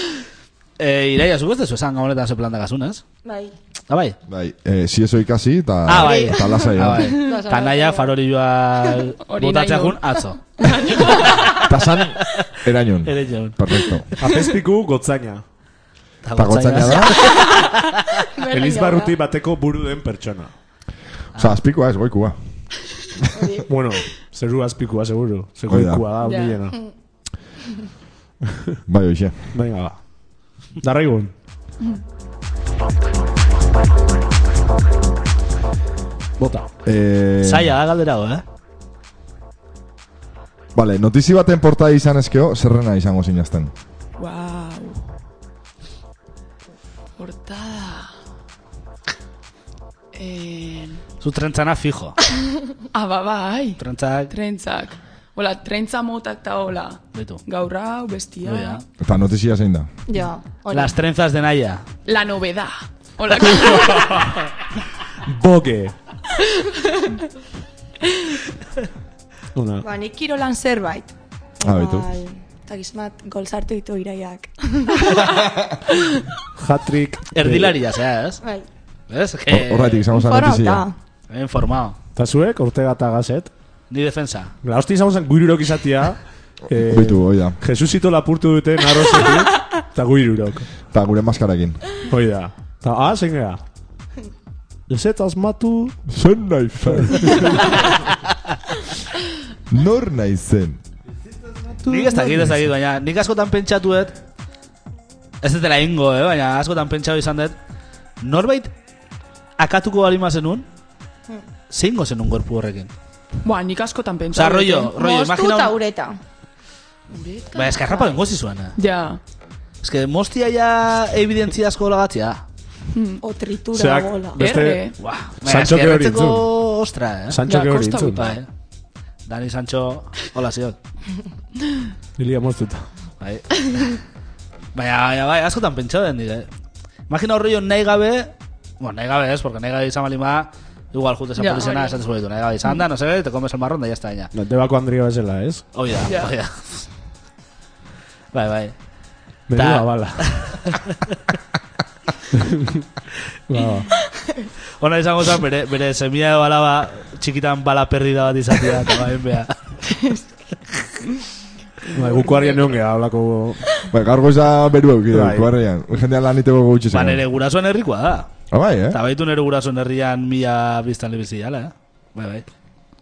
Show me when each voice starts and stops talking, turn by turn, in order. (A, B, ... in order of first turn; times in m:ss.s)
0:00.8-0:03.0 A
0:03.2-0:03.5 B
0:03.9-0:04.2 A
0:04.3-0:07.2 C
0:05.8-0:10.4 A
0:05.9-0:08.1 B
0:07.0-0:07.4 D
0:09.2-0:11.7 D
0:11.1-0:11.5 A
0:11.6-0:14.1 C
0:12.2-0:12.5 A
0:13.0-0:14.2 A
0:14.2-0:15.4 E
0:16.2-0:18.0 A
0:16.4-0:17.3 C
0:18.4-0:19.2 B
0:18.5-0:20.5 E
0:21.4-0:22.4 C
0:23.3-0:23.6 B
0:23.7-0:26.8 E
0:25.7-0:26.1 C
0:26.2-0:26.6 D
0:26.4-0:26.9 B
0:28.9-0:29.5 C
0:29.5-0:30.0 E
0:30.8-0:31.3 E
0:36.4-0:36.7 E
0:36.8-0:37.7 C
0:37.4-0:38.4 A
0:40.7-0:43.7 C
0:44.2-0:45.0 D
0:47.2-0:48.1 D
0:50.1-0:51.0 D
0:51.2-0:52.2 A
0:52.9-0:58.8 D
0:53.8-0:54.3 A
0:57.1-0:57.4 A
0:58.4-0:58.8 A
0:59.0-0:59.9 C
1:00.1-1:00.9 B
1:00.7-1:01.8 A
1:02.0-1:04.2 D
1:03.5-1:04.4 E
1:05.2-1:05.9 E
1:09.5-1:09.9 E
1:09.8-1:15.3 B
1:11.6-1:12.1 C
1:16.5-1:17.8 E
1:17.3-1:18.4 A
1:18.4-1:18.7 B
1:19.1-1:20.1 A
1:19.5-1:20.9 C
1:20.1-1:21.0 B
1:21.3-1:22.0 A
1:22.2-1:23.5 E
1:23.9-1:24.5 A
1:24.6-1:30.7 E
1:26.8-1:27.6 C
1:30.9-1:31.8 C
1:32.1-1:33.6 E
1:34.9-1:36.0 E
1:36.1-1:37.9 C
1:36.9-1:37.5 E
1:39.7-1:40.8 C
1:41.8-1:42.6 E
1:41.8-1:44.1 A
1:45.4-1:47.6 A
1:48.2-1:48.7 A
1:49.6-1:50.6 A
1:51.7-1:52.9 A
1:53.4-1:54.9 D
1:54.3-1:55.8 A
1:54.9-1:56.2 B
1:57.1-1:58.2 D
1:57.5-1:58.8 A
1:58.8-1:59.2 D
1:59.8-2:02.4 A
2:02.9-2:03.2 D
2:03.2-2:04.4 B
2:03.7-2:06.5 E
2:04.4-2:05.0 D
2:05.0-2:07.4 A
2:07.3-2:08.2 E
2:07.5-2:08.4 D
2:08.2-2:08.5 A
2:09.2-2:10.8 A
2:12.2-2:12.9 E
2:13.2-2:14.0 A
2:14.7-2:16.5 A
2:17.1-2:24.3 A
2:21.4-2:22.0 D
2:24.3-2:25.6 E
2:25.7-2:26.8 A
2:26.1-2:26.3 D
2:28.3-2:28.7 A
2:29.5-2:30.7 E
2:29.5-2:31.0 A
2:32.3-2:32.9 E
2:33.5-2:33.9 E
2:34.8-2:39.5 A
2:39.9-2:40.3 B
2:41.9-2:43.6 E
2:41.9-2:42.6 D
2:43.9-2:47.2 C
2:45.1-2:45.5 E
2:46.9-2:48.3 A
2:48.5-2:49.0 C
2:48.9-2:52.4 A